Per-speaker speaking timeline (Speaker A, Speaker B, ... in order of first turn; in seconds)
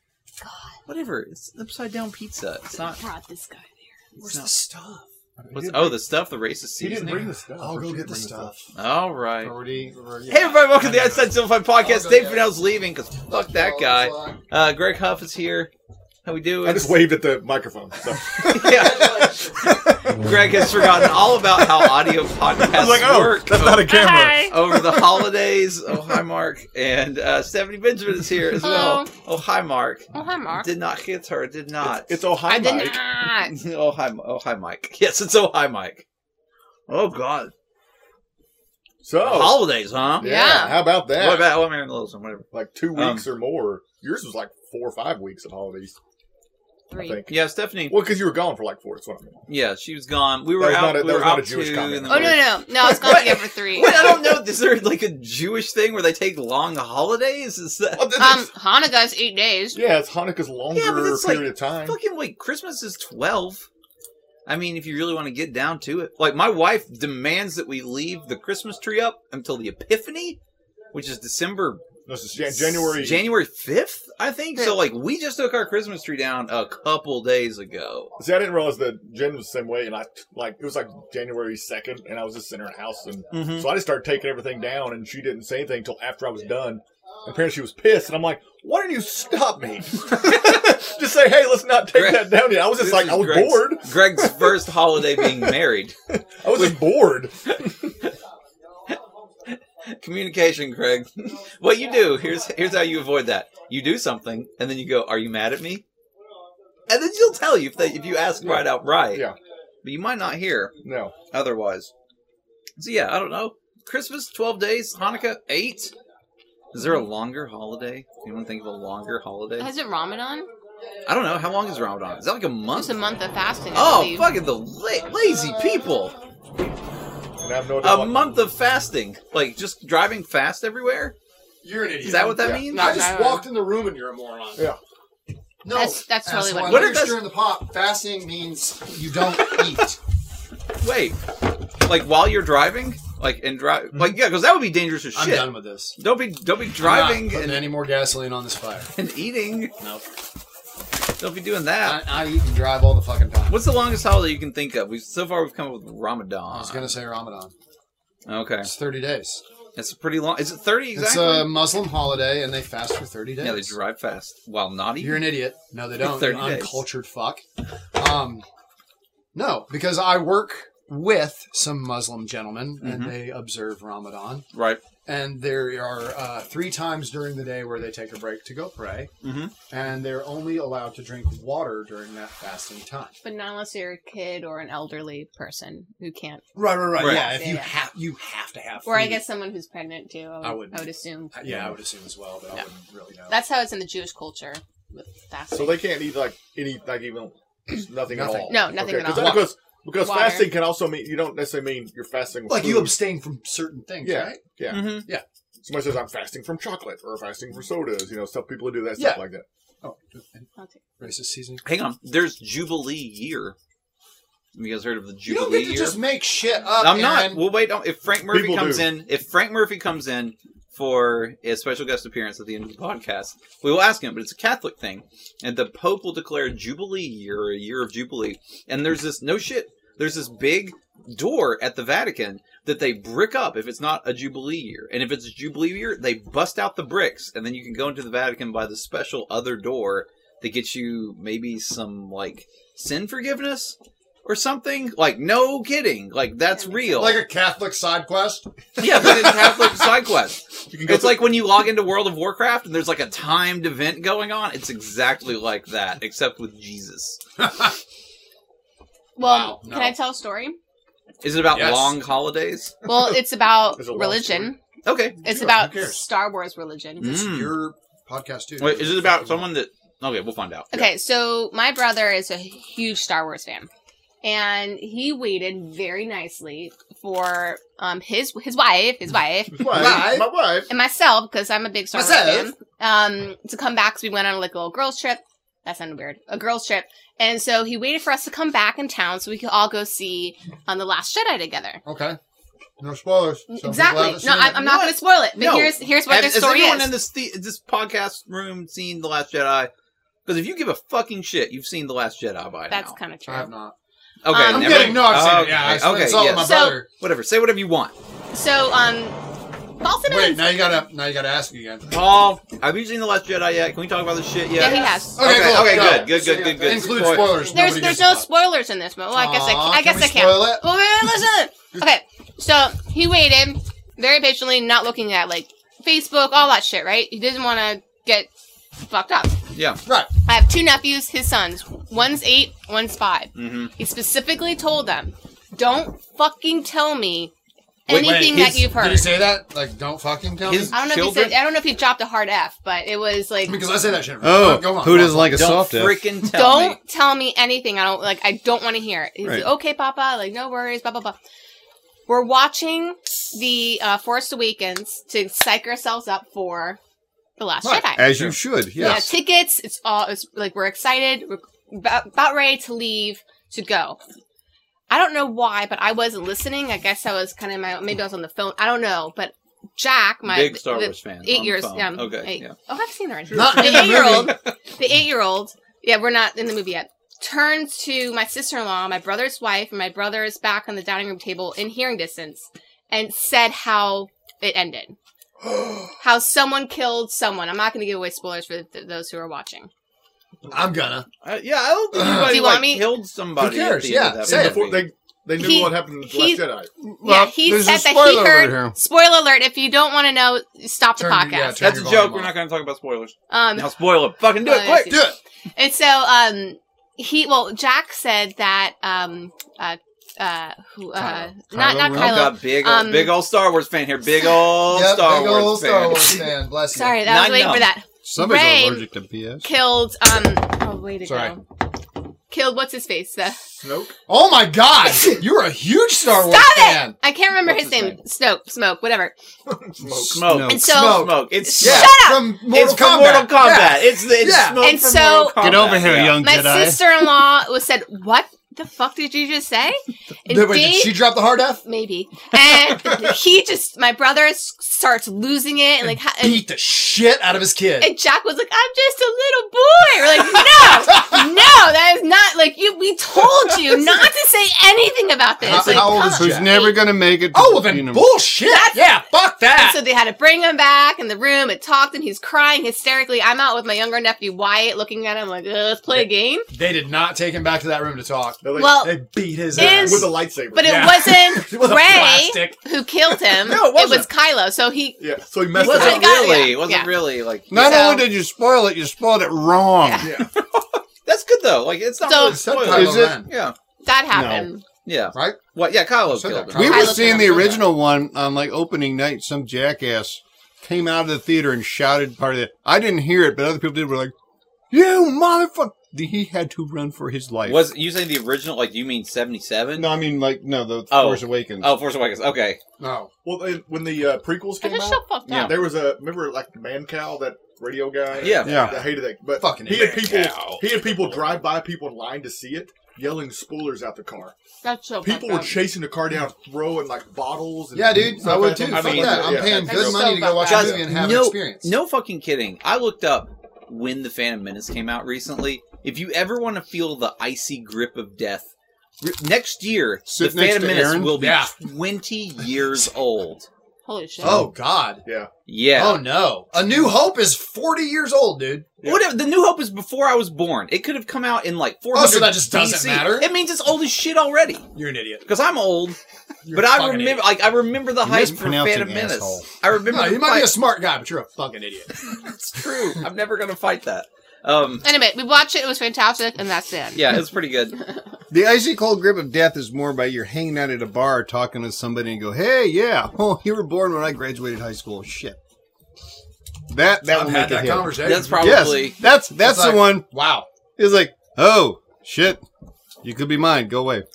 Speaker A: 0.4-0.8, 2.7-3.9, 23.9-24.5, 28.6-29.1, 30.1-30.7, 32.5-33.5, 40.2-40.9, 46.9-47.2, 52.1-54.2, 58.2-59.8, 74.6-74.8, 119.6-120.5, 122.7-124.3, 132.7-133.5, 135.7-137.0, 183.2-187.7, 188.8-191.4, 193.3-195.8, 198.5-200.6, 210.6-210.8, 246.5-246.9, 259.2-260.6, 262.9-264.6, 265.2-267.2, 270.7-273.7, 274.2-279.9, 280.7-291.8, 293.5-297.0, 302.7-303.5, 304.3-304.9, 306.4-306.8, 308.3-309.2, 309.8-310.8, 314.6-315.3, 317.3-328.3, 328.8-329.4, 330.2-337.3, 337.9-339.2, 340.7-343.6, 346.3-351.2, 352.1-356.8, 357.4-358.2, 358.8-364.0, 364.9-385.0, 386.0-389.7, 392.0-392.9, 395.4-396.4, 397.0-401.8, 403.3-403.8, 404.3-413.2, 416.7-418.9, 419.4-421.4, 422.3-423.4, 426.1-429.1, 430.5-432.3, 434.6-446.5, 447.8-456.8, 458.4-459.0, 459.6-466.5, 468.6-469.0, 469.6-475.0, 475.5-477.0, 477.5-478.1, 479.9-480.2, 482.0-482.4, 483.8-484.6, 486.6-487.6, 504.6-505.6, 514.6-515.7, 519.6-520.8, 533.9-534.5, 554.8-557.9
Speaker B: 0.9-3.0, 4.2-4.6, 5.5-7.1, 8.7-9.5, 10.3-15.7, 16.2-17.0, 18.4-19.4, 20.1-32.2, 33.4-36.0, 36.9-37.5, 39.2-40.3, 41.1-43.3, 47.3-48.0, 49.5-58.1, 60.7-63.7, 64.5-70.4, 70.9-71.8, 72.5-78.1, 83.3-83.7, 91.9-96.0, 96.5-96.8, 99.5-105.8, 106.9-109.3, 109.8-110.8, 111.3-111.9, 112.8-115.9, 116.7-119.7, 121.1-123.0, 123.7-126.2, 127.8-131.2, 132.0-132.9, 136.7-137.2, 140.8-141.2, 141.8-147.7, 148.9-149.7, 151.2-152.0, 153.5-156.9, 158.3-158.7, 159.8-161.6, 163.4-165.4, 166.0-166.9, 172.8-173.2, 174.5-174.8, 179.2-179.5, 187.0-187.3, 204.7-205.1, 211.6-213.6, 214.5-216.0, 216.8-247.2, 248.8-257.2, 261.2-262.8, 264.9-265.2, 267.0-267.6, 268.6-270.7, 294.6-299.7, 300.3-303.0, 304.2-307.9, 311.9-317.5, 329.5-329.8, 333.4-333.7, 337.9-338.7, 340.4-341.4, 345.3-346.8, 370.2-372.6, 373.3-374.4, 391.2-394.8, 401.6-405.0, 411.9-416.2, 417.0-417.7, 430.1-436.2, 473.4-474.1, 475.6-477.9, 480.4-483.6, 484.9-486.8, 497.5-500.0, 500.9-502.6, 505.3-505.6, 508.2-508.6, 509.8-510.9, 518.7-528.5, 529.0-533.5, 535.5-536.1, 538.8-544.7, 545.2-546.0, 546.5-550.6, 552.0-554.9, 557.0-557.8, 568.0-569.0
Speaker C: 4.2-5.5, 7.0-8.7, 9.4-12.6, 13.3-14.4, 18.6-19.8, 131.6-134.7, 135.6-140.0, 145.1-146.0, 146.8-148.9, 149.8-150.0, 151.8-153.6, 156.5-157.5, 158.6-159.4, 160.9-163.8, 165.0-167.4, 168.0-168.4, 169.3-174.4, 175.1-179.1, 179.7-183.2, 186.6-189.2, 190.4-193.4, 198.1-199.5, 202.5-205.2, 208.9-209.2, 209.8-210.5, 211.0-211.6, 215.3-217.5, 246.9-249.5, 257.4-257.7, 259.2-259.9, 261.5-262.0, 265.2-266.1, 267.0-269.5, 279.7-280.3, 281.9-282.5, 291.9-292.2, 292.8-294.6, 303.3-303.8, 304.4-306.9, 310.1-311.9, 314.6-318.3, 319.1-320.7, 329.9-330.1, 337.9-340.8, 343.5-345.9, 373.3-374.3, 390.5-391.1, 391.9-392.5, 393.4-394.7, 401.0-402.4, 404.9-405.2, 414.7-417.0, 421.1-421.4, 424.1-427.0, 429.8-434.6, 440.3-441.6, 446.2-447.9, 450.4-451.3, 455.4-456.5, 457.3-459.8, 466.5-472.6, 473.1-473.5, 482.2-483.3, 485.1-485.4, 486.1-487.7, 502.8-503.1, 508.4-510.6, 517.7-521.8, 531.2-531.5, 534.2-535.0, 535.7-538.8, 541.9-543.3, 544.7-545.2, 546.5-547.4, 549.8-552.9, 567.0-570.5
Speaker D: 5.4-6.0, 6.8-8.6, 16.6-25.1, 31.8-33.0, 39.0-41.6, 42.5-46.0, 47.0-49.4, 50.5-52.5, 53.8-54.3, 58.0-58.5, 59.7-62.0, 72.1-73.3, 78.2-94.5, 95.2-95.5, 96.4-97.6, 108.4-109.4, 110.8-111.2, 127.4-128.5, 132.3-132.7, 191.5-191.8, 195.5-203.0, 204.0-205.0, 205.6-209.5, 218.3-218.9, 250.7-251.6, 262.9-264.5, 279.6-280.7, 394.2-396.7, 423.6-423.9, 429.5-430.2, 468.4-468.9, 469.6-470.9, 475.0-476.3, 480.0-480.3, 503.2-514.4, 515.0-520.2, 535.0-535.3, 538.8-539.1
Speaker E: 344.2-346.0, 349.2-349.5, 357.9-359.1, 396.8-398.8, 411.0-412.3, 418.0-419.4, 430.2-430.7, 435.4-436.9, 455.5-458.1, 477.5-480.1, 482.6-483.3, 484.1-484.5, 486.5-494.1, 494.7-497.7, 499.8-501.7, 508.4-508.8, 530.1-531.1, 548.0-549.5, 558.3-565.4, 566.7-570.1, 570.8-572.4, 573.0-574.0